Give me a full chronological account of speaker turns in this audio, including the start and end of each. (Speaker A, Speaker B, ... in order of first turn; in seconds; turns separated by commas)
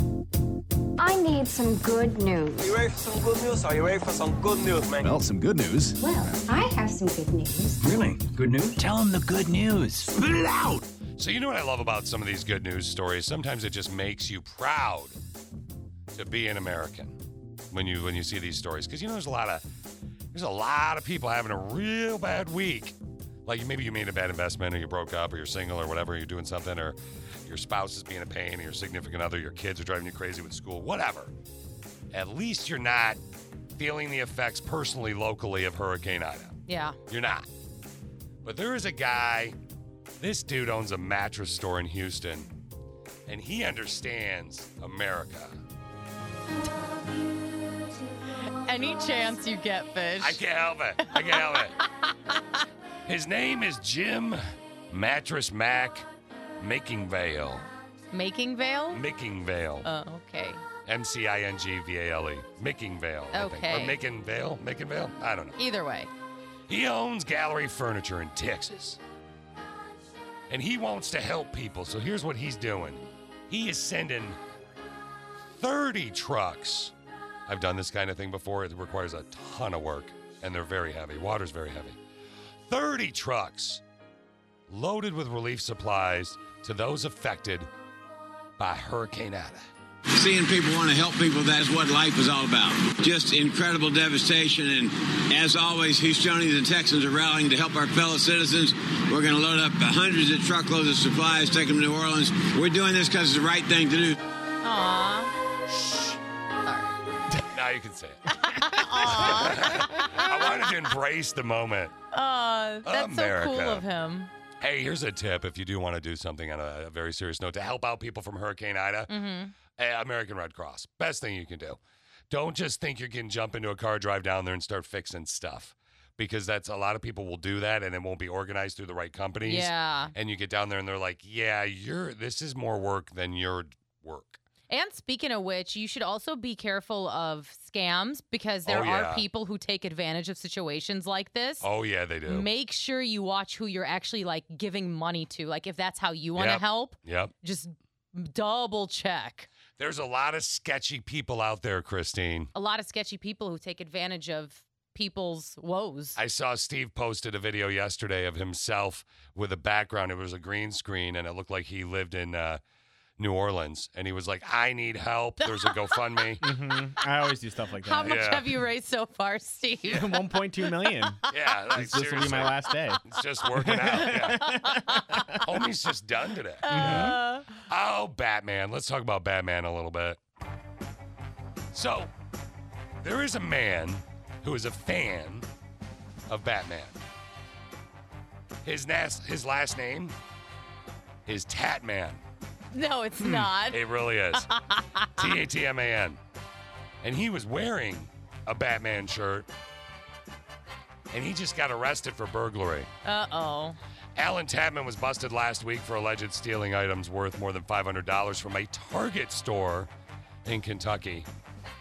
Speaker A: 1.0-2.7, Speaker B: 2.6-5.0, Speaker C: 4.9-6.0, Speaker A: 6.0-7.8, Speaker C: 7.8-10.8, Speaker D: 11.2-15.2, Speaker D: 16.1-17.2, Speaker D: 17.7-19.6, Speaker D: 20.3-31.3, Speaker D: 32.1-33.2, Speaker D: 33.8-37.5, Speaker E: 36.7-37.0, Speaker D: 38.4-39.5, Speaker D: 40.2-42.5, Speaker D: 43.3-45.6, Speaker E: 48.5-50.4, Speaker D: 50.2-51.8, Speaker E: 51.0-51.6, Speaker D: 53.0-56.1, Speaker D: 56.6-57.7, Speaker E: 58.1-59.0, Speaker D: 58.9-59.9, Speaker E: 59.8-60.6, Speaker D: 60.8-65.6, Speaker E: 63.3-64.0, Speaker E: 65.6-66.1, Speaker D: 66.7-69.0, Speaker D: 70.5-74.4, Speaker D: 75.5-76.9, Speaker D: 77.5-82.0, Speaker D: 82.7-83.8, Speaker D: 84.7-87.7, Speaker D: 88.6-89.7, Speaker F: 90.2-104.2, Speaker E: 104.6-105.3, Speaker D: 105.7-106.2, Speaker E: 106.6-106.9, Speaker D: 107.5-108.2, Speaker E: 108.4-110.3, Speaker D: 109.1-111.9, Speaker E: 112.1-114.3, Speaker D: 112.8-113.8, Speaker D: 114.6-119.1, Speaker E: 119.1-119.5, Speaker D: 119.7-134.4, Speaker E: 129.4-130.1, Speaker E: 134.7-141.7, Speaker D: 138.7-139.2, Speaker D: 141.6-142.5, Speaker E: 142.3-149.5, Speaker D: 146.3-147.3, Speaker D: 149.8-152.5, Speaker E: 152.5-156.2, Speaker D: 156.2-162.6, Speaker D: 163.2-166.4, Speaker E: 165.4-166.2, Speaker G: 166.4-168.4, Speaker E: 167.8-170.2, Speaker D: 168.0-168.4, Speaker G: 169.9-173.0, Speaker D: 171.3-174.5, Speaker G: 173.5-175.4, Speaker E: 174.4-175.2, Speaker D: 175.4-180.2, Speaker E: 176.6-177.6, Speaker G: 176.7-177.2, Speaker D: 181.7-182.1, Speaker D: 183.0-185.5, Speaker D: 186.3-187.0, Speaker D: 188.6-190.2, Speaker D: 191.2-192.2, Speaker E: 192.7-193.8, Speaker G: 193.2-193.5, Speaker D: 193.7-194.5, Speaker E: 194.3-195.3, Speaker D: 195.2-196.2, Speaker D: 197.0-199.5, Speaker D: 201.1-202.9, Speaker E: 203.0-203.8, Speaker D: 204.2-209.9, Speaker D: 210.4-211.3